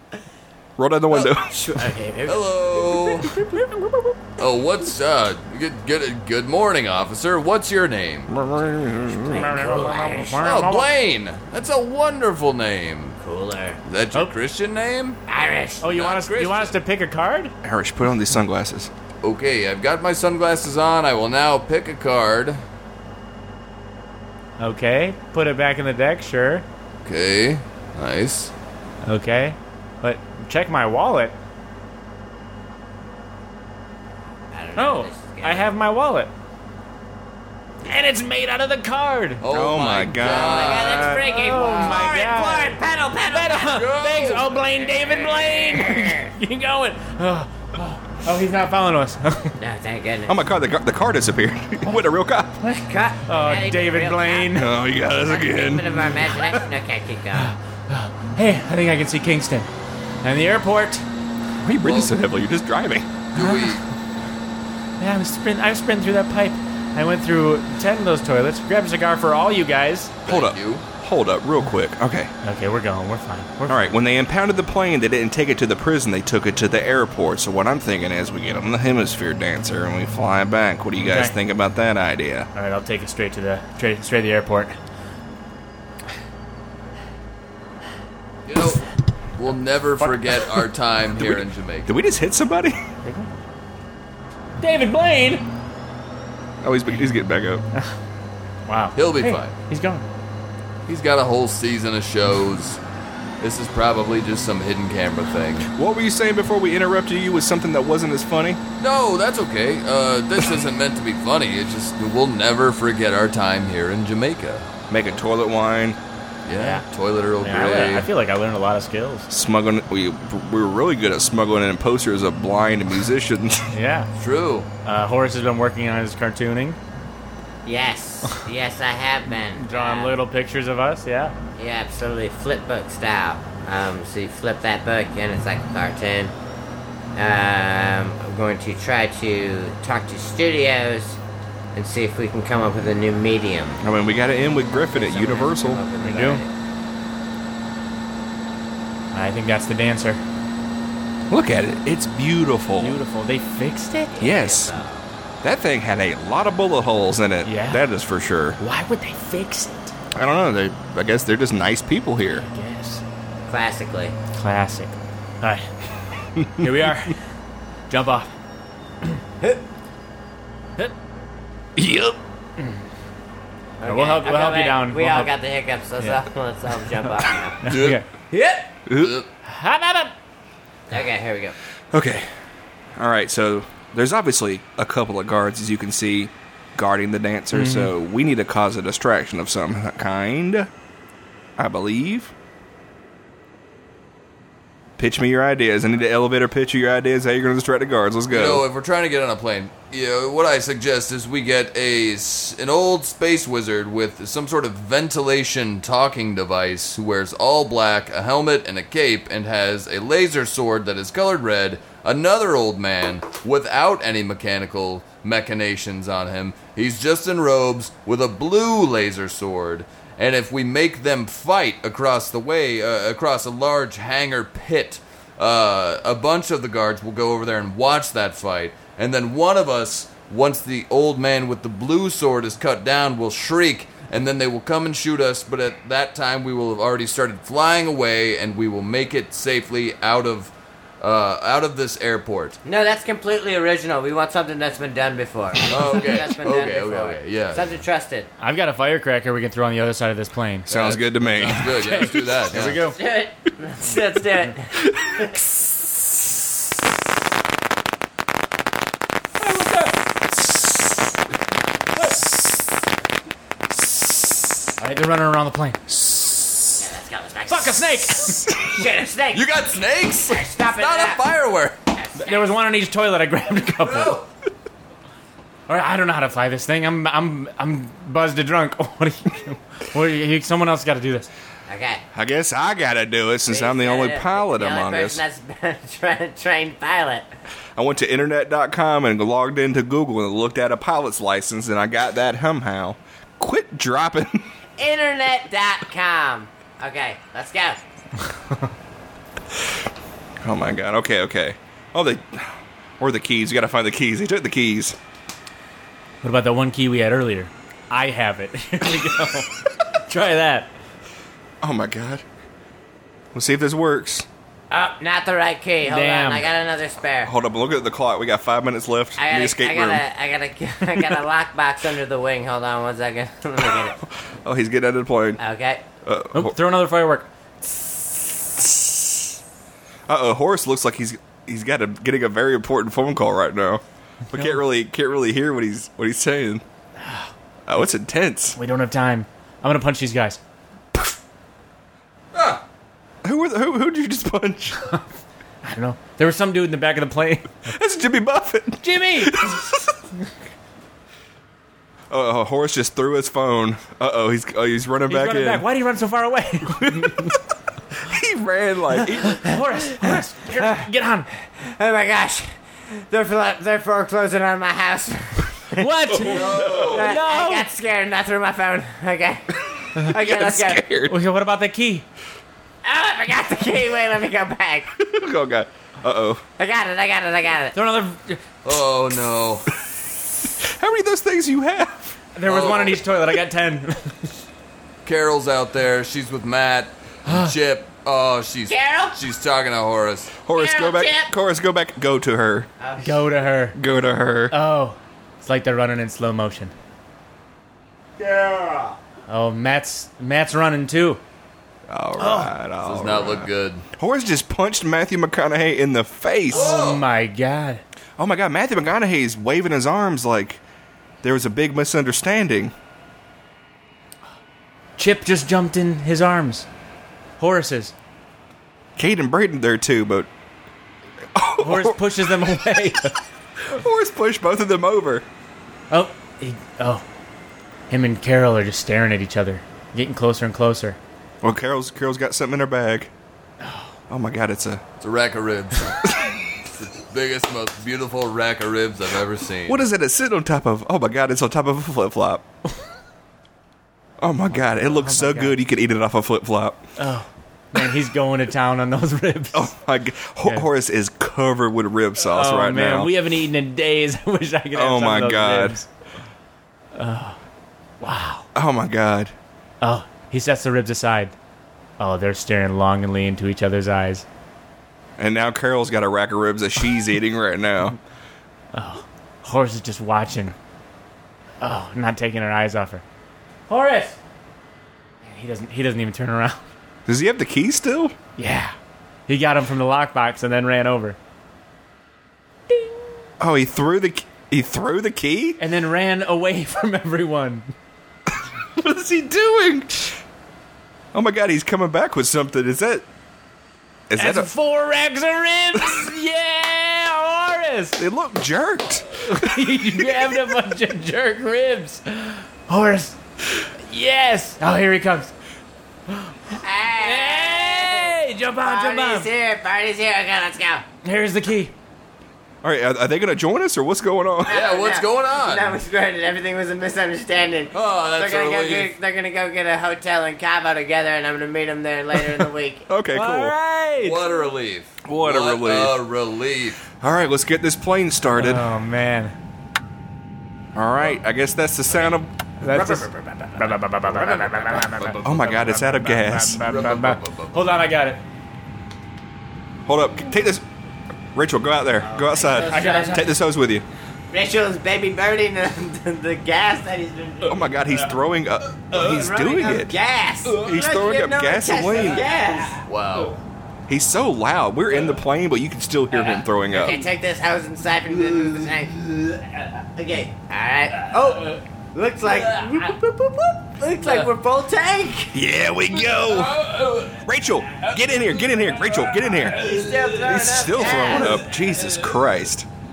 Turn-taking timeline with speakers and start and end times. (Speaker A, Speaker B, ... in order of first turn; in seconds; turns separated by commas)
Speaker A: 0.8-1.8, Speaker B: 1.1-2.9, Speaker C: 2.3-3.4, Speaker C: 4.4-8.3, Speaker A: 8.3-9.5, Speaker B: 9.1-10.4, Speaker D: 9.3-10.9, Speaker C: 10.4-13.2, Speaker B: 13.2-13.8, Speaker C: 13.8-15.2, Speaker B: 15.3-16.0, Speaker D: 15.8-17.5, Speaker C: 15.9-16.7, Speaker A: 17.6-18.9, Speaker C: 19.2-22.6, Speaker D: 24.6-26.6, Speaker C: 27.1-28.5, Speaker D: 29.0-31.3, Speaker B: 34.5-35.7, Speaker D: 34.8-36.3, Speaker D: 37.8-39.4, Speaker C: 39.4-41.2, Speaker A: 39.5-41.0, Speaker B: 40.2-43.8, Speaker D: 40.9-49.6, Speaker C: 43.7-44.5, Speaker B: 44.8-46.3, Speaker B: 49.6-50.4, Speaker A: 50.3-52.6, Speaker B: 52.6-57.5, Speaker D: 53.3-54.7, Speaker A: 54.5-56.1, Speaker D: 57.4-59.7, Speaker D: 60.2-61.0, Speaker A: 61.6-63.1, Speaker C: 61.8-62.1, Speaker C: 63.3-63.8, Speaker D: 63.4-63.8, Speaker D: 65.0-70.1, Speaker C: 70.3-70.8, Speaker A: 70.3-72.3, Speaker D: 72.4-73.9, Speaker A: 73.7-82.5, Speaker D: 81.0-81.4, Speaker D: 82.5-84.8, Speaker C: 88.5-91.9, Speaker D: 90.0-90.5, Speaker A: 91.2-92.8, Speaker D: 93.0-93.3, Speaker D: 94.6-95.5, Speaker A: 96.6-97.6, Speaker D: 98.7-100.1, Speaker C: 99.0-99.5, Speaker C: 100.9-102.8, Speaker C: 103.4-105.7, Speaker A: 105.7-108.6, Speaker C: 108.8-114.7, Speaker A: 114.9-116.0, Speaker C: 116.5-118.1, Speaker D: 116.6-116.8, Speaker D: 117.4-119.3, Speaker A: 119.3-123.7, Speaker D: 123.7-124.1, Speaker C: 124.2-124.7, Speaker D: 124.8-126.8, Speaker B: 127.7-130.1, Speaker D: 129.5-131.3, Speaker B: 131.6-136.3, Speaker B: 137.2-141.2, Speaker B: 141.7-143.8, Speaker A: 143.8-145.8, Speaker B: 144.7-146.5, Speaker D: 146.0-146.4, Speaker D: 149.1-150.2, Speaker A: 151.3-153.0, Speaker D: 152.8-154.2, Speaker B: 154.2-155.0, Speaker A: 154.2-154.8, Speaker A: 155.4-158.6, Speaker D: 157.4-157.8, Speaker D: 158.6-159.9, Speaker A: 160.1-162.4, Speaker D: 162.3-163.0, Speaker B: 163.5-164.1, Speaker D: 164.3-165.7, Speaker A: 166.4-166.7, Speaker D: 166.6-167.2, Speaker D: 167.9-168.3, Speaker A: 171.8-172.2, Speaker B: 173.8-177.6, Speaker D: 173.8-175.3, Speaker D: 177.6-178.7, Speaker C: 177.7-178.0, Speaker A: 178.9-179.2, Speaker C: 179.0-179.3, Speaker D: 179.5-180.1, Speaker B: 180.9-181.6, Speaker A: 181.9-182.3, Speaker A: 183.0-190.7, Speaker D: 187.5-187.9, Speaker A: 191.6-192.3, Speaker A: 195.0-198.6, Speaker C: 198.3-242.6, Speaker B: 242.7-248.3, Speaker C: 245.7-247.7, Speaker D: 248.4-250.7, Speaker A: 250.7-252.3, Speaker C: 250.7-252.8, Speaker D: 251.6-253.0, Speaker B: 252.7-255.5, Speaker D: 259.4-260.2, Speaker D: 261.9-262.6, Speaker D: 264.8-266.6, Speaker B: 266.8-271.2, Speaker D: 267.5-268.6, Speaker C: 269.3-271.8, Speaker B: 271.9-272.6, Speaker D: 272.2-274.2, Speaker C: 273.8-274.2, Speaker D: 275.7-281.3, Speaker B: 281.7-282.0, Speaker A: 282.1-285.2, Speaker B: 283.5-287.3, Speaker A: 287.8-294.5, Speaker B: 294.8-297.8, Speaker A: 300.4-305.0, Speaker D: 306.2-309.5, Speaker D: 310.0-310.7, Speaker A: 311.6-312.2, Speaker A: 313.3-314.3, Speaker B: 314.7-317.3, Speaker D: 315.8-316.5, Speaker A: 317.2-320.0, Speaker B: 319.2-324.0, Speaker A: 320.9-321.2, Speaker A: 323.6-325.4, Speaker B: 325.4-325.8, Speaker A: 326.1-326.6, Speaker D: 326.3-327.3, Speaker A: 330.1-336.6, Speaker D: 334.3-334.6, Speaker D: 337.0-337.3, Speaker A: 337.7-338.6, Speaker D: 338.6-340.4, Speaker C: 342.3-342.6, Speaker A: 343.2-344.8, Speaker D: 344.8-345.1, Speaker D: 345.6-347.6, Speaker A: 347.7-349.9, Speaker D: 348.8-349.6, Speaker A: 352.1-355.6, Speaker D: 355.1-357.4, Speaker A: 356.8-357.3, Speaker A: 358.1-359.5, Speaker D: 359.2-361.3, Speaker B: 361.5-370.8, Speaker D: 365.7-367.7, Speaker A: 366.1-367.0, Speaker C: 366.3-367.2, Speaker A: 370.1-371.2, Speaker D: 371.1-372.1, Speaker B: 372.8-374.9, Speaker A: 375.0-376.4, Speaker B: 376.6-377.8, Speaker D: 377.7-378.4, Speaker C: 378.6-379.7, Speaker A: 380.6-382.2, Speaker D: 382.4-384.4, Speaker C: 382.5-383.0, Speaker C: 385.1-390.3, Speaker D: 387.2-387.5, Speaker B: 388.7-389.2, Speaker A: 390.4-392.7, Speaker B: 390.5-391.3, Speaker B: 392.8-393.2, Speaker D: 393.0-393.8, Speaker A: 393.8-394.5, Speaker D: 394.5-396.7, Speaker B: 398.2-399.0, Speaker D: 399.3-401.2, Speaker A: 401.9-406.7, Speaker D: 402.2-402.5, Speaker C: 402.8-403.8, Speaker D: 406.5-407.8, Speaker C: 406.5-407.0, Speaker A: 408.2-410.6, Speaker A: 411.2-412.7, Speaker D: 415.0-416.7, Speaker D: 417.4-417.9, Speaker A: 419.0-420.3, Speaker A: 421.4-422.6, Speaker D: 421.6-423.2, Speaker A: 423.7-425.2, Speaker D: 425.9-427.0, Speaker D: 427.9-431.0, Speaker A: 431.4-433.1, Speaker D: 433.6-433.9, Speaker A: 434.1-434.8, Speaker C: 435.0-439.9, Speaker A: 439.7-442.4, Speaker A: 444.2-446.8, Speaker D: 444.8-445.6, Speaker D: 447.0-449.7, Speaker A: 449.5-453.1, Speaker D: 452.2-455.9, Speaker A: 454.7-455.8, Speaker D: 456.9-457.4, Speaker D: 458.0-458.5, Speaker A: 458.5-459.3, Speaker D: 459.8-461.3, Speaker D: 462.0-464.2, Speaker A: 465.2-468.0, Speaker D: 468.7-470.6, Speaker D: 471.6-473.0, Speaker D: 473.7-474.2, Speaker D: 475.2-476.6, Speaker A: 477.1-478.1, Speaker D: 478.4-478.8, Speaker D: 479.3-481.2, Speaker D: 482.7-483.0, Speaker A: 483.4-485.6, Speaker D: 485.6-487.7, Speaker A: 488.8-490.2, Speaker A: 491.1-493.1, Speaker A: 494.1-494.5, Speaker D: 494.2-498.0, Speaker A: 498.0-500.4, Speaker D: 499.1-505.3, Speaker D: 506.1-509.3, Speaker B: 506.6-510.9, Speaker D: 511.0-511.7, Speaker A: 512.6-514.6, Speaker B: 514.4-522.9, Speaker C: 514.5-515.8, Speaker C: 517.7-518.9, Speaker A: 522.9-523.5, Speaker D: 523.1-524.2, Speaker C: 524.0-526.8, Speaker A: 525.0-526.0, Speaker A: 527.0-528.7, Speaker D: 528.4-529.3, Speaker A: 530.8-533.1, Speaker D: 532.6-538.2, Speaker B: 534.1-534.9, Speaker A: 535.2-536.9, Speaker C: 536.6-537.7, Speaker A: 539.9-540.6, Speaker A: 541.3-543.9, Speaker B: 542.0-543.4, Speaker D: 542.7-543.3, Speaker B: 544.3-547.8, Speaker A: 547.4-549.9, Speaker B: 548.9-552.8, Speaker A: 550.5-552.3, Speaker D: 552.0-552.4, Speaker C: 552.9-553.4, Speaker A: 553.9-557.0, Speaker B: 556.7-559.0, Speaker B: 560.0-565.4, Speaker D: 562.3-562.9, Speaker D: 564.0-564.3, Speaker A: 565.3-572.7, Speaker D: 566.6-567.1, Speaker D: 569.6-570.2, Speaker B: 569.6-571.4, Speaker D: 570.8-572.0